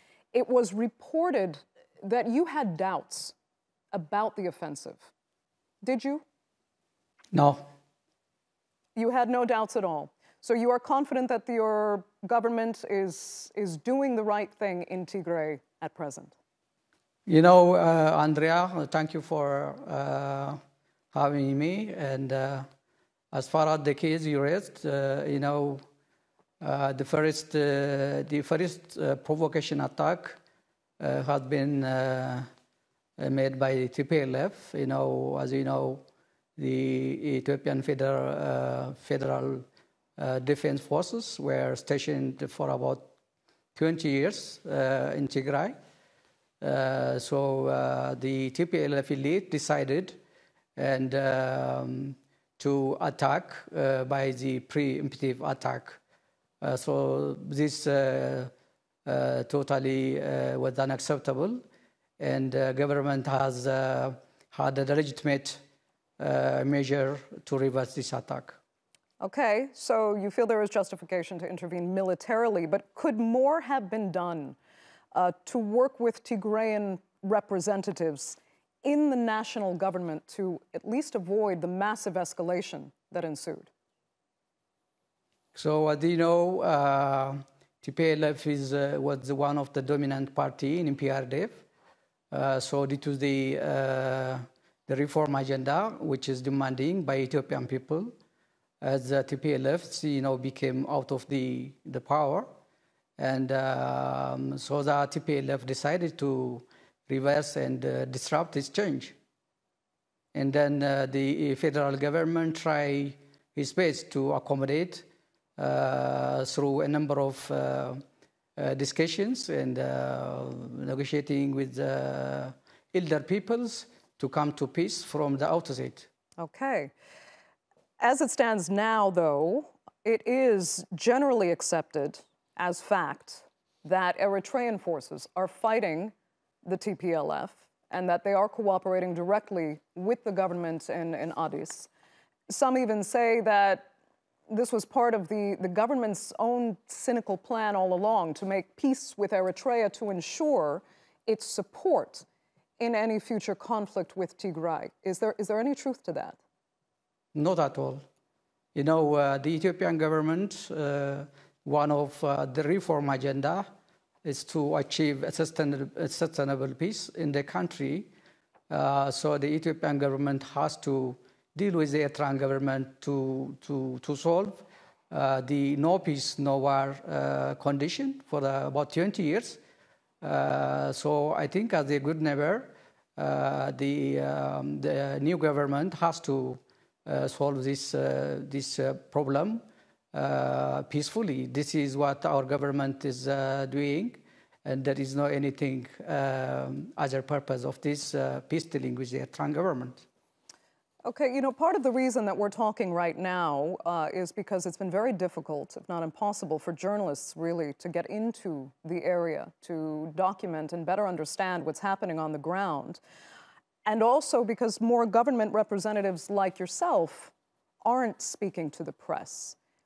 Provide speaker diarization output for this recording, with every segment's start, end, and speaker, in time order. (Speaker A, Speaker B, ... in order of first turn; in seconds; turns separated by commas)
Speaker A: 0.3-3.3, Speaker A: 3.9-5.1, Speaker A: 5.8-6.2, Speaker B: 7.3-7.7, Speaker A: 8.9-16.3, Speaker B: 17.3-20.6, Speaker B: 21.1-22.7, Speaker B: 23.3-25.8, Speaker B: 26.6-30.4, Speaker B: 31.0-32.5, Speaker B: 33.2-36.0, Speaker B: 36.6-39.6, Speaker B: 40.2-43.1, Speaker B: 43.7-45.8, Speaker B: 46.6-50.2, Speaker B: 50.8-56.0, Speaker B: 56.6-58.5, Speaker B: 59.0-61.6, Speaker B: 62.2-65.6, Speaker B: 66.2-68.6, Speaker A: 69.2-74.6, Speaker A: 75.1-83.7, Speaker B: 85.5-91.6, Speaker B: 92.3-98.1, Speaker B: 98.8-102.5, Speaker B: 103.2-109.2, Speaker B: 110.3-118.0, Speaker B: 118.6-126.1, Speaker A: 126.4-126.9, Speaker A: 128.0-141.9, Speaker A: 142.5-143.9, Speaker A: 144.5-152.2, Speaker A: 152.8-156.4, Speaker B: 157.3-158.0, Speaker B: 158.7-163.7, Speaker B: 164.2-168.1, Speaker B: 168.7-179.6, Speaker B: 180.2-200.1, Speaker A: 201.0-213.0, Speaker A: 213.8-217.3, Speaker A: 217.8-219.6